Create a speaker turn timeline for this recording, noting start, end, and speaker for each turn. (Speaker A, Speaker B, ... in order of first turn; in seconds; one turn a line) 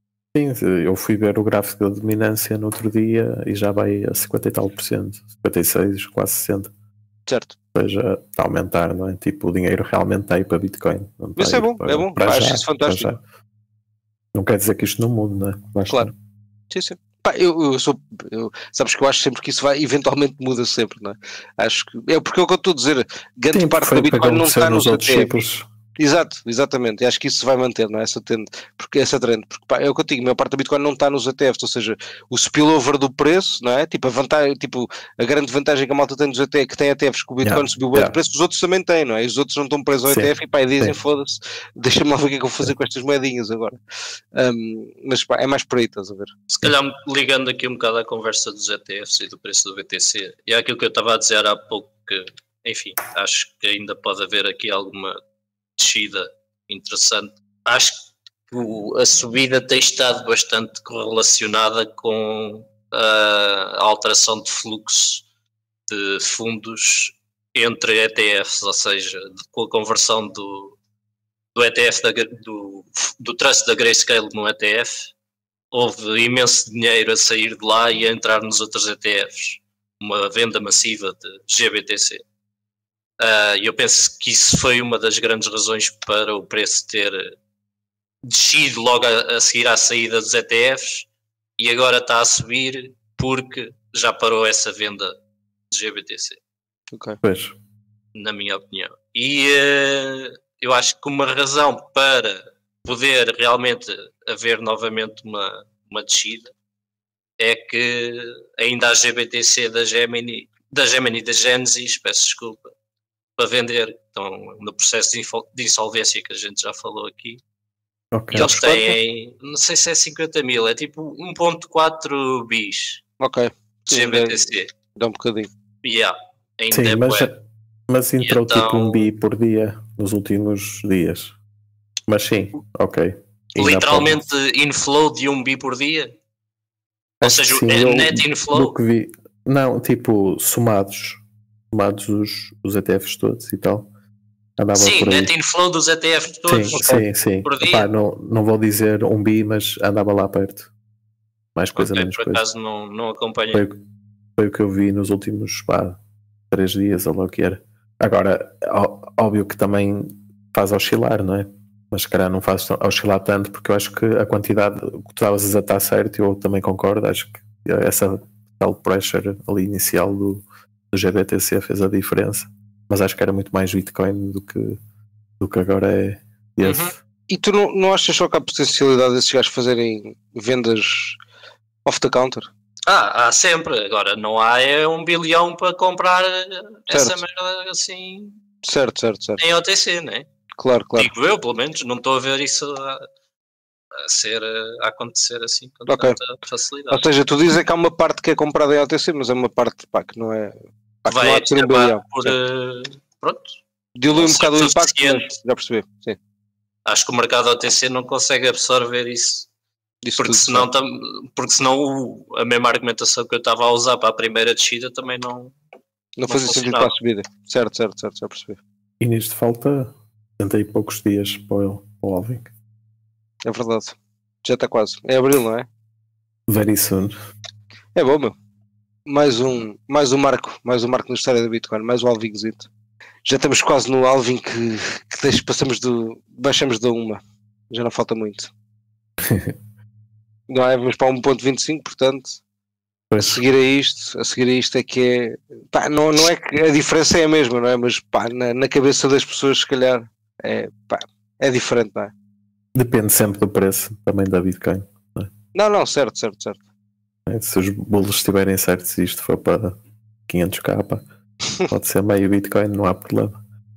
Speaker A: 0.3-6.7
Speaker B: 7.3-7.5
Speaker A: 7.7-13.2
Speaker B: 11.4-13.1
Speaker A: 14.3-16.1
Speaker B: 16.7-25.4
Speaker A: 23.5-25.7
Speaker B: 26.0-43.8
Speaker A: 37.4-38.1
Speaker A: 40.1-40.9
Speaker B: 44.3-46.3
Speaker C: 46.5-55.2
Speaker C: 55.8-65.2
Speaker C: 65.9-70.8
Speaker C: 71.5-75.1
Speaker C: 75.7-82.2
Speaker C: 83.2-87.3
Speaker C: 88.2-91.0
Speaker C: 91.6-95.1
Speaker C: 95.7-96.4
Speaker B: 96.9-97.2
Speaker A: 97.2-97.5
Speaker C: 98.1-106.5
Speaker C: 107.4-112.7
Speaker C: 113.4-117.4
Speaker A: 118.1-118.5
Speaker C: 118.3-123.0
Speaker B: 118.3-119.0
Speaker B: 123.2-125.5
Speaker C: 123.9-124.7
Speaker C: 125.8-127.3
Speaker A: 126.7-127.4
Speaker A: 127.9-131.3
Speaker C: 128.2-129.0
Speaker A: 132.1-134.2
Speaker C: 133.6-136.1
Speaker C: 137.2-138.7
Speaker A: 137.2-143.9
Speaker A: 144.6-145.3
Speaker C: 144.7-146.9
Speaker A: 146.5-150.7
Speaker B: 146.7-147.0
Speaker C: 147.4-147.9
Speaker A: 151.5-152.4
Speaker C: 151.8-153.6
Speaker A: 153.5-153.8
Speaker A: 154.4-156.0
Speaker A: 156.5-174.8
Speaker A: 175.4-176.9
Speaker C: 176.6-176.9
Speaker B: 177.3-181.2
Speaker B: 181.8-182.5
Speaker C: 182.9-188.4
Speaker B: 186.9-187.2
Speaker B: 188.6-189.4
Speaker C: 189.4-190.2
Speaker B: 190.6-191.1
Speaker C: 190.9-193.1
Speaker C: 193.9-197.0
Speaker B: 195.9-196.2
Speaker B: 196.9-202.3
Speaker C: 201.1-203.6
Speaker B: 204.0-206.2
Speaker C: 204.2-205.3
Speaker C: 206.8-209.5
Speaker B: 210.0-210.7
Speaker C: 210.2-215.5
Speaker B: 216.2-218.6
Speaker C: 216.3-216.9
Speaker A: 219.0-222.5
Speaker B: 223.4-225.7
Speaker A: 226.5-227.1
Speaker B: 227.9-228.3
Speaker B: 229.1-232.7
Speaker B: 233.2-238.5
Speaker A: 239.2-239.5
Speaker B: 240.5-242.4
Speaker A: 243.1-243.4
Speaker B: 243.2-252.1
Speaker A: 252.7-255.3
Speaker B: 255.5-256.6
Speaker A: 257.2-261.1
Speaker A: 261.7-263.4